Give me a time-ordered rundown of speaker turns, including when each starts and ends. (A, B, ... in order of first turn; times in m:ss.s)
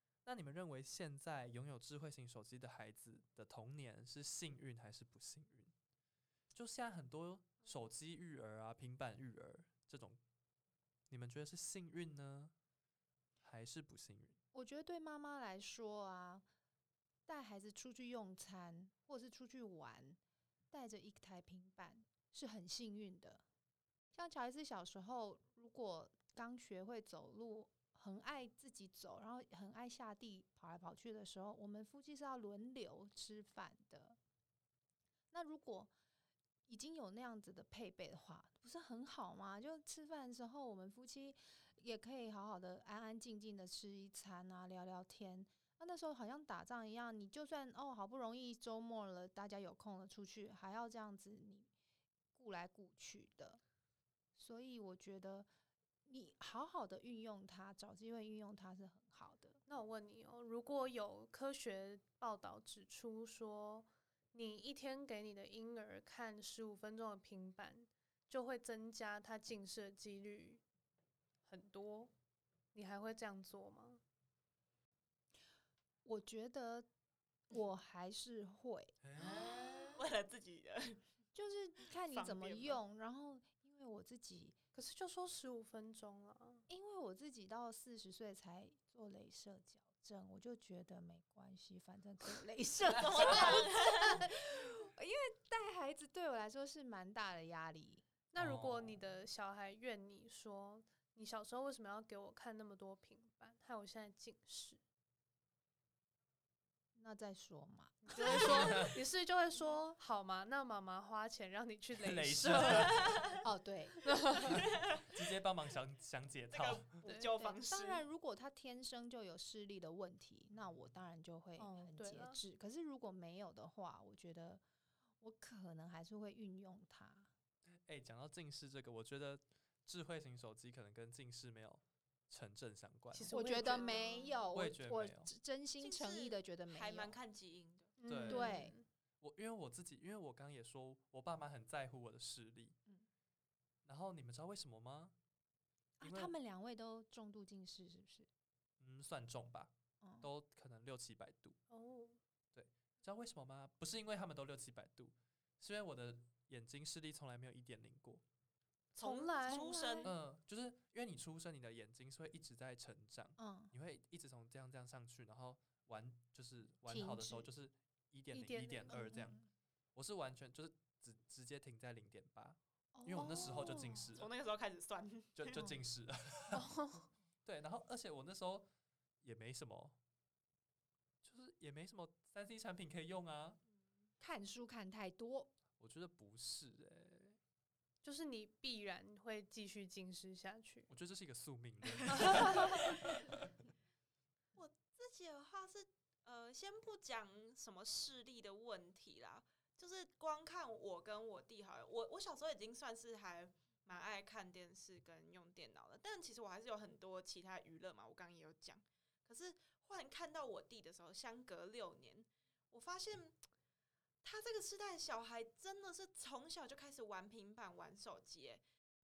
0:00.2-0:05.7 A
0:06.5-0:10.2 A
0:11.1-0:12.5 A
0:13.4-0:14.4 A
0:14.5-0:16.4 B
0:17.3-0:20.2 B
0:20.7-0:23.4 B
0:24.1-0:34.2 B
0:35.3-0:35.9 B
0:36.7-0:51.7 B
0:52.3-0:53.6 B
0:54.4-0:55.5 B
0:56.0-0:59.6 B
0:59.7-1:10.6 C
1:11.5-1:12.1 C
1:12.7-1:14.0 C
1:16.0-1:16.9 B
1:17.5-1:19.9 B
1:19.0-1:20.0 A
1:20.0-1:21.0 D
1:21.3-1:24.6 B
1:22.1-1:22.8 D
1:24.7-1:26.6 C
1:26.7-1:38.0 B
1:32.9-1:34.3 D
1:38.3-1:44.8 C
1:38.4-1:39.0 A
1:46.9-1:49.0 B
1:48.0-1:53.2 C
1:48.3-1:49.0 A
1:52.0-1:53.1 A
1:52.7-1:53.4 D
1:53.4-1:54.0 B
1:54.0-1:54.6 C
1:54.5-1:55.1 D
1:55.1-1:57.0 A
1:56.5-1:58.0 D
1:57.0-2:04.6 B
2:01.6-2:02.4 C
2:05.2-2:07.3 B
2:07.6-2:13.4 A
2:13.1-2:14.4 C
2:13.3-2:17.2 B
2:13.6-2:14.3 D
2:14.5-2:15.3 A
2:15.8-2:18.0 D
2:18.0-2:18.8 C
2:18.0-2:18.6 A
2:18.2-2:18.7 B
2:19.2-2:22.7 A
2:23.8-2:25.1 A
2:26.0-2:28.3 B
2:26.0-2:26.3 A
2:28.8-2:31.6 A
2:30.0-2:30.3 B
2:31.7-2:32.2 C
2:32.5-2:38.2 A
2:38.9-2:40.1 D
2:39.0-2:39.8 C
2:39.5-2:40.1 B
2:40.0-2:49.4 A
2:43.4-2:43.7 B
2:46.9-2:47.5 B
2:48.3-2:49.0 C
2:48.9-2:49.5 B
2:49.9-2:54.3 A
2:52.9-2:54.2 B
2:53.3-2:55.7 D
2:55.4-2:56.7 A
2:56.5-2:57.1 C
2:57.4-2:58.7 A
2:59.2-2:59.9 A
3:01.2-3:03.6 A
3:04.2-3:05.5 B
3:05.8-3:07.4 A
3:08.0-3:10.9 C
3:10.9-3:13.5 A
3:12.0-3:13.0 D
3:12.2-3:12.6 C
3:14.5-3:33.4 D
3:34.2-3:38.6 D